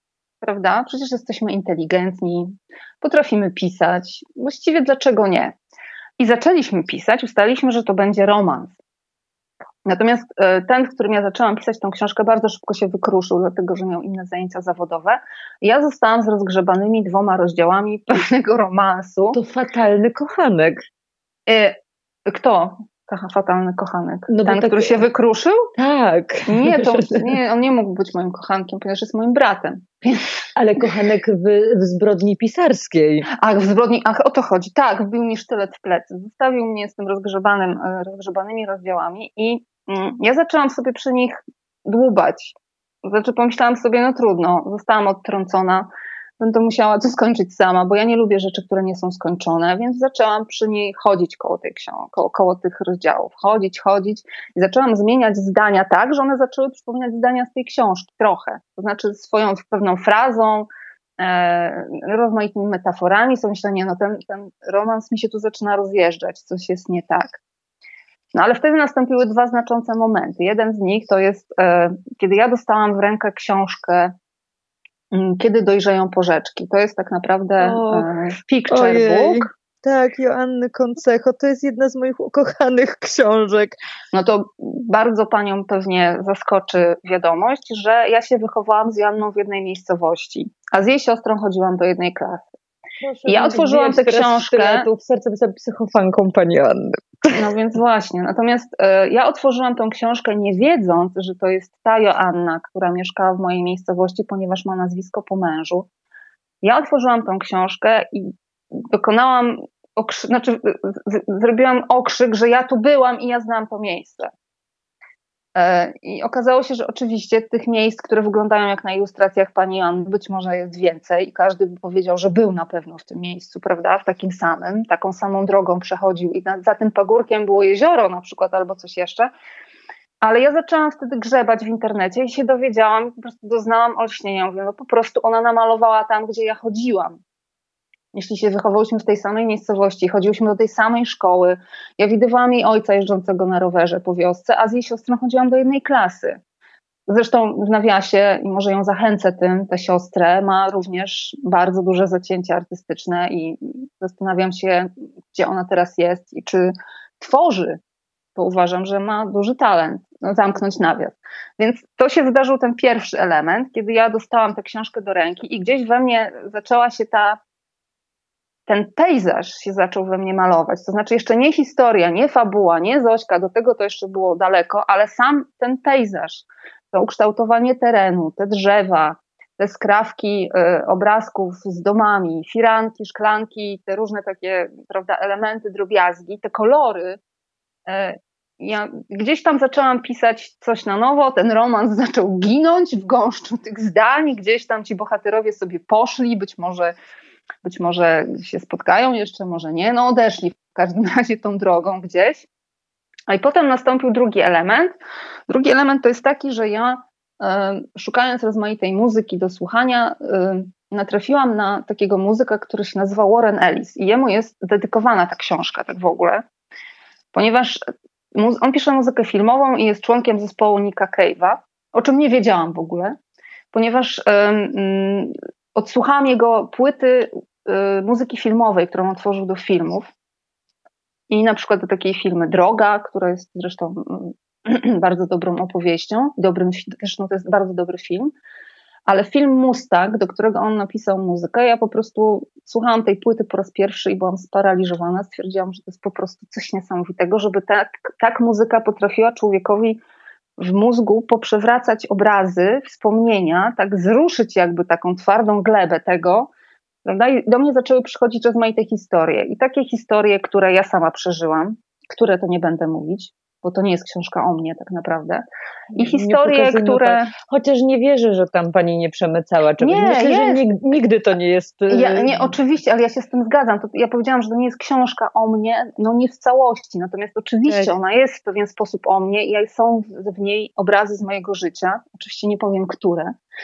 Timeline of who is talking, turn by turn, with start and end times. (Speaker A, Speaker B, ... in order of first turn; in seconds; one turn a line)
Speaker A: 0.4-5.5
Speaker A: 6.2-8.8
Speaker A: 9.9-19.4
Speaker B: 19.3-20.8
Speaker A: 21.5-25.7
Speaker B: 24.3-25.0
Speaker B: 25.8-27.3
Speaker A: 26.5-30.3
Speaker B: 30.6-33.3
Speaker A: 33.3-67.4
Speaker A: 68.3-74.1
Speaker A: 75.1-79.5
Speaker B: 77.6-78.1
Speaker B: 78.7-83.8
Speaker A: 84.1-92.5
Speaker B: 93.0-97.3
Speaker A: 93.3-94.9
Speaker A: 97.3-105.9
Speaker A: 106.6-114.3
Speaker A: 115.5-129.3
Speaker A: 130.2-137.2
Speaker A: 138.1-146.4
Speaker A: 147.1-157.8
Speaker A: 158.4-167.4
Speaker A: 168.7-187.2
Speaker A: 187.9-196.9
Speaker A: 197.6-202.5
Speaker A: 203.3-204.9
Speaker A: 205.5-216.4
Speaker A: 217.3-217.8
Speaker A: 218.3-223.2
Speaker A: 223.7-230.1
Speaker A: 231.3-238.3
Speaker A: 239.1-250.0
Speaker A: 250.6-256.5
Speaker A: 257.0-267.3
Speaker B: 266.0-272.5
Speaker A: 269.8-270.6
Speaker A: 271.9-283.3